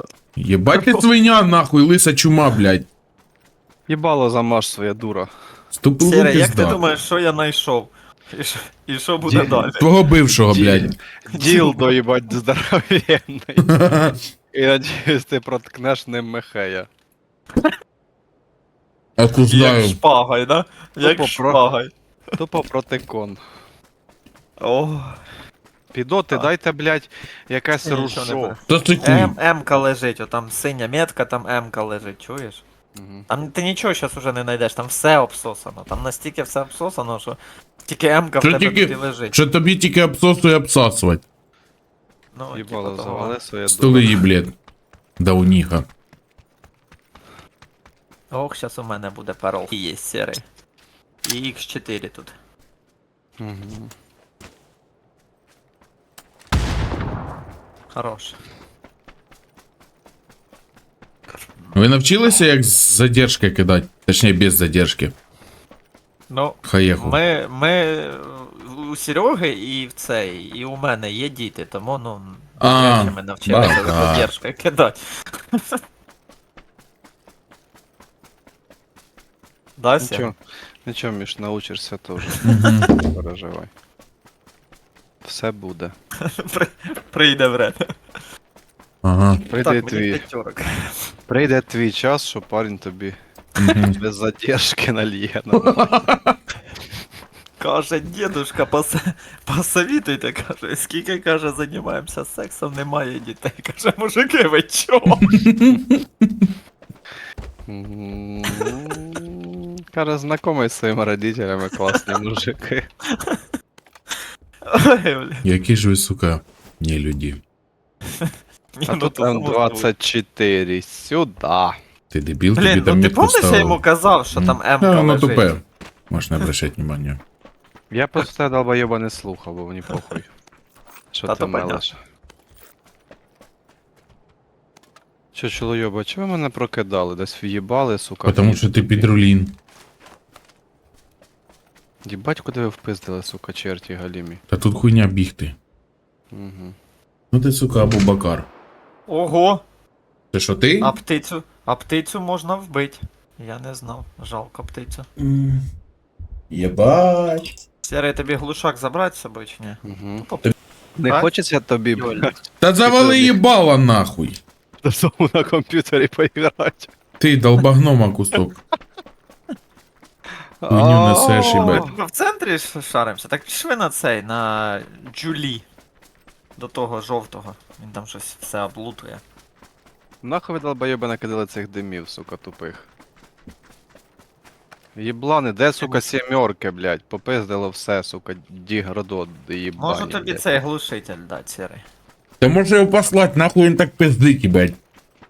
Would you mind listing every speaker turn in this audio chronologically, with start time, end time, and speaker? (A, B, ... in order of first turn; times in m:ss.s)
0:00.4-0:02.9 A
0:00.7-0:01.0 B
0:03.9-0:05.3 C
0:05.7-0:06.8 A
0:06.0-0:09.9 B
0:09.2-0:09.7 C
0:09.8-0:11.0 A
0:10.4-0:13.8 C
0:11.3-0:11.9 B
0:13.6-0:14.2 A
0:14.5-0:16.9 C
0:19.2-0:20.0 A
0:19.5-0:21.9 B
0:21.0-0:21.6 C
0:22.4-0:23.4 C
0:24.6-0:25.2 B
0:25.9-0:28.6 C
0:27.8-0:32.6 B
0:28.7-0:29.3 A
0:32.9-0:33.3 C
0:33.3-0:39.4 B
0:38.4-0:41.2 A
0:42.3-0:43.4 B
0:42.5-0:44.2 C
0:43.7-0:44.5 A
0:45.2-0:45.8 A
0:48.3-0:50.4 B
0:51.2-0:52.3 B
0:53.4-0:53.9 C
0:57.9-0:58.4 B
1:01.6-1:01.8 B
1:01.7-1:05.1 A
1:06.3-1:15.6 B
1:06.6-1:07.2 A
1:12.6-1:14.3 A
1:19.8-1:20.3 B
1:20.0-1:23.7 C
1:22.2-1:22.8 B
1:22.4-1:22.9 A
1:25.2-1:25.9 C
1:26.2-1:27.9 B
1:29.0-1:29.4 A
1:29.4-1:30.2 C
1:29.6-1:31.0 B
1:31.3-1:33.2 C
1:33.6-1:34.0 A
1:33.8-1:35.9 C
1:35.5-1:36.4 A
1:37.6-1:45.3 B
1:45.2-1:46.4 A
1:47.7-1:52.9 C
1:53.1-1:53.4 B
1:54.7-1:55.4 B
1:55.4-1:57.4 A
1:58.2-1:59.9 B
1:58.9-2:01.7 C
2:02.1-2:03.8 A
2:02.6-2:05.5 B
2:04.3-2:07.2 A
2:07.9-2:10.3 C
2:11.1-2:12.0 C
2:11.2-2:11.8 B
2:15.3-2:19.1 C
2:18.2-2:19.5 A
2:22.0-2:24.4 C
2:24.5-2:25.5 A
2:26.3-2:26.7 C
2:27.3-2:28.5 A
2:29.1-2:29.6 B
2:30.3-2:30.9 A
2:30.8-2:35.1 B
2:35.2-2:35.6 A
2:36.5-2:37.5 A
2:37.8-2:40.5 B
2:39.8-2:40.3 C
2:41.0-2:43.4 C
2:42.0-2:42.3 B
2:42.6-2:44.4 A
2:44.8-2:46.9 C
2:47.2-2:48.5 A
2:50.6-2:52.0 C
2:50.7-2:51.8 A
2:51.5-2:55.6 B
2:56.6-2:59.2 B
3:00.2-3:02.9 C
3:05.0-3:10.4 C
3:05.8-3:06.0 B
3:09.8-3:11.8 B
3:12.4-3:14.8 A